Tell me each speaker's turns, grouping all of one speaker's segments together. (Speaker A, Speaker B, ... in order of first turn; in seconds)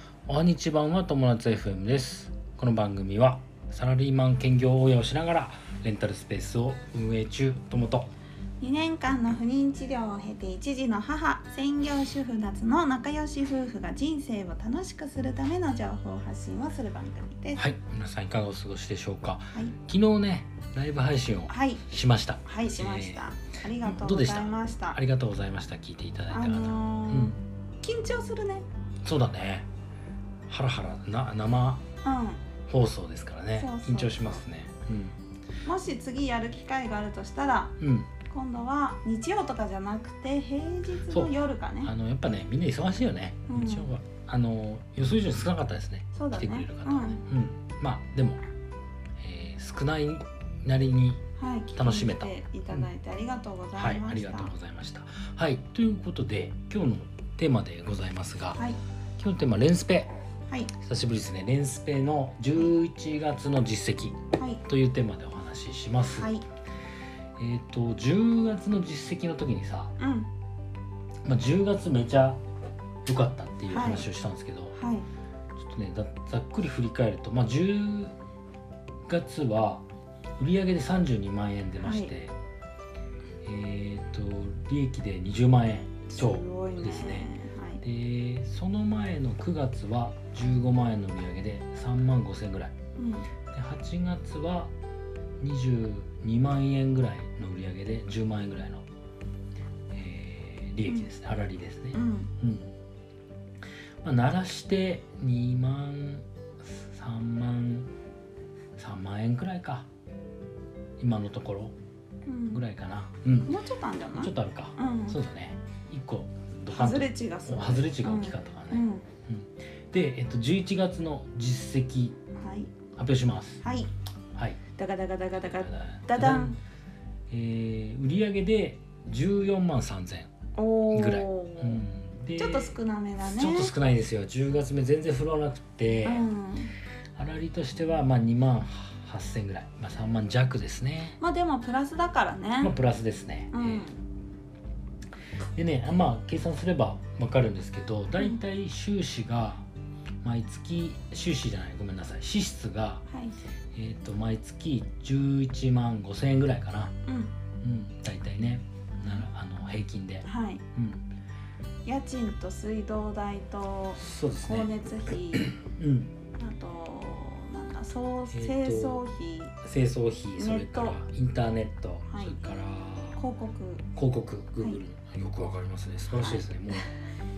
Speaker A: 0.3-8.1, 17.5-23.2, 23.8-27.4, 29.0-29.7, 30.5-31.8, 32.7-35.2, 37.8-38.1, 41.1-48.4, 49.2-51.2, 51.8-52.9, 53.8-58.6, 59.2-60.1, 60.8-66.4, 67.4-69.9, 71.2-72.4, 73.0-74.7, 75.5-78.1, 79.0-79.8, 80.4-82.3, 83.4-92.7, 93.5-94.7, 95.4-98.8, 99.9-102.7, 104.0-107.9, 108.8-109.9, 111.0-111.7, 112.5-113.5, 114.1-122.1, 123.0-123.6, 124.3-124.6, 125.4-126.6, 127.3-130.3, 130.9-136.2, 137.2-141.2, 142.6-143.9, 145.5-149.6, 150.2-153.1, 153.7-156.9, 157.6-161.1, 164.0-164.7, 165.4-166.1, 168.3-169.0, 169.6-173.2, 173.9-176.9
Speaker B: 8.6-17.6, 21.5-21.8, 22.4-25.0, 26.3-28.6, 32.0-32.4, 33.5-34.4, 35.6-41.9, 43.5-43.9, 46.1-47.2, 51.4-54.5, 64.3-64.6, 66.2-66.4, 70.0-70.3, 73.7-74.1, 74.7-75.0, 81.8-82.1, 86.1-87.8, 93.0-93.3, 101.9-102.3, 112.2-112.6, 113.5-115.2, 116.7-119.0, 122.3-122.7, 123.6-123.9, 124.8-126.6, 130.6-131.8, 132.4-133.7, 136.0-136.7, 141.2-142.7, 143.5-144.0, 153.1-153.3, 157.1-157.3, 160.2-160.6, 161.8-165.5, 166.3-169.5, 170.3-171.0, 172.1-172.4, 173.2-173.8, 176.1-176.4